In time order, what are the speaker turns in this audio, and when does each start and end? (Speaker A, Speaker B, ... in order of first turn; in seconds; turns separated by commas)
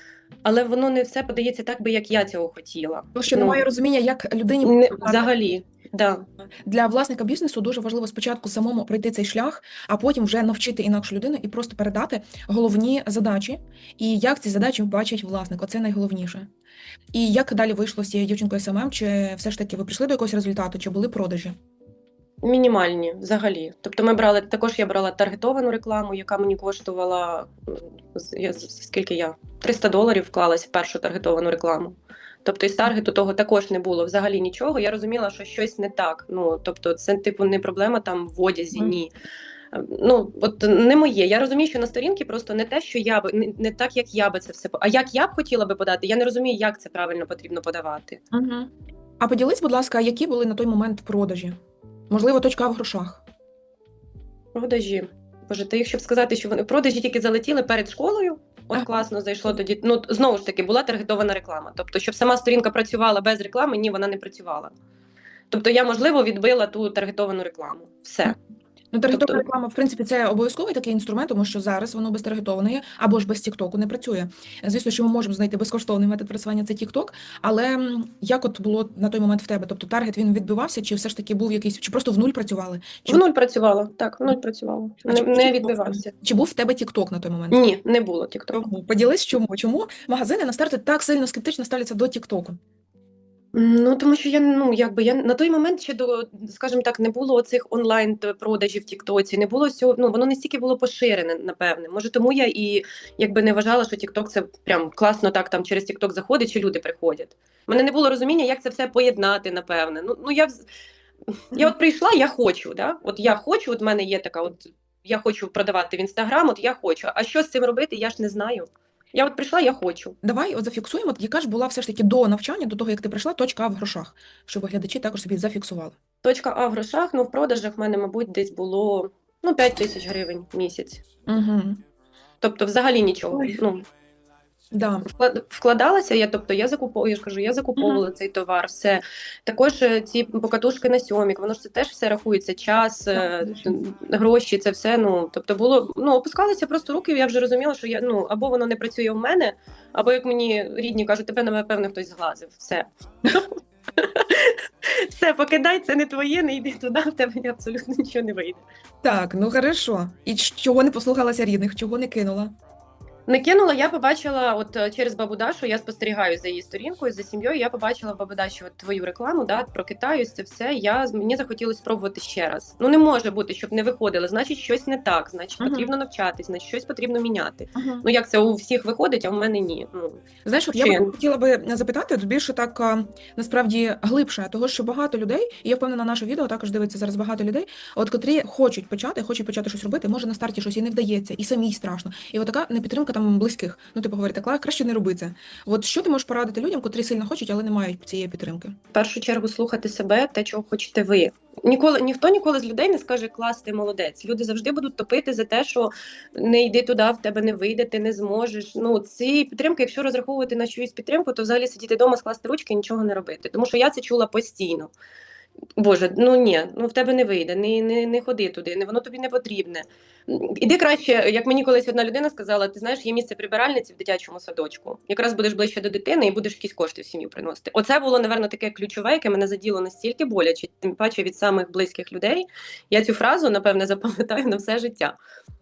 Speaker A: 0.4-3.6, Speaker B: 3.1-5.3, Speaker A: 4.6-6.2, Speaker B: 6.7-16.5, Speaker B: 17.1-21.6, Speaker A: 22.4-39.1, Speaker A: 39.7-48.2, Speaker B: 48.3-51.6, Speaker B: 52.1-53.2, Speaker A: 54.5-64.7, Speaker A: 65.5-68.4, Speaker B: 68.9-83.2, Speaker A: 69.1-69.4, Speaker A: 83.1-86.1, Speaker B: 85.0-87.6, Speaker A: 87.5-88.6, Speaker B: 88.5-92.6, Speaker A: 93.5-110.6, Speaker A: 111.5-120.2, Speaker B: 120.2-126.0, Speaker A: 126.2-131.0, Speaker B: 131.3-131.8, Speaker A: 132.4-133.8, Speaker B: 134.7-135.1, Speaker A: 135.1-158.6, Speaker B: 137.8-138.0, Speaker B: 143.1-143.8, Speaker B: 159.0-162.5, Speaker A: 163.3-181.1, Speaker B: 175.6-175.9, Speaker B: 177.7-178.0, Speaker B: 180.4-198.8, Speaker A: 198.9-214.9, Speaker A: 215.8-235.2